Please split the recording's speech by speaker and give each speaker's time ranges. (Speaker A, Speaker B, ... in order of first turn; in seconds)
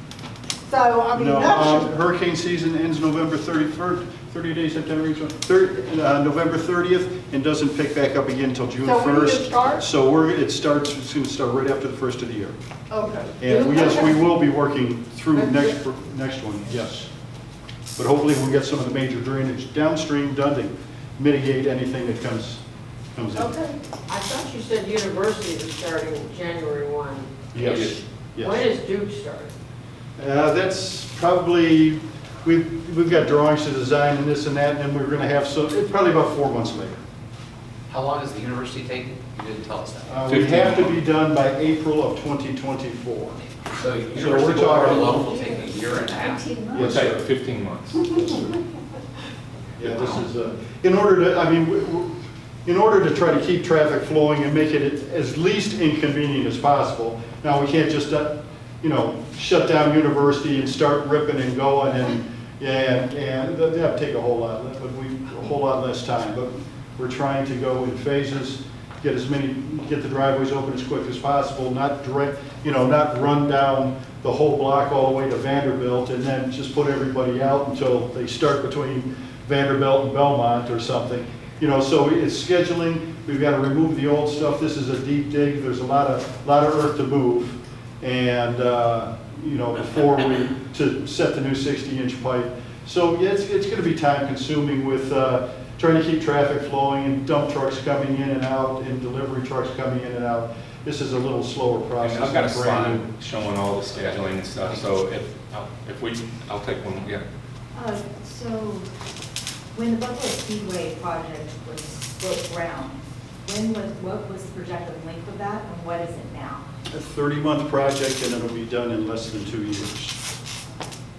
Speaker A: 0.6-1.9, 8.8-9.8, 12.9-13.5
Speaker B: 1.1-12.6, 13.4-17.1, 17.9-22.6, 23.1-23.5, 27.5-28.6, 30.2-37.0, 40.0-43.4, 44.1-45.3, 46.7-47.2, 48.1-48.4, 49.8-103.1, 116.9-120.2
Speaker C: 13.6-13.8, 23.4-27.5, 28.4-29.6
Speaker D: 27.6-28.0, 40.2-41.0, 46.8-48.1, 102.0-107.2
Speaker E: 37.9-40.1, 43.7-46.5
Speaker F: 45.3-45.5, 46.1-47.0, 107.7-108.9, 109.7-116.6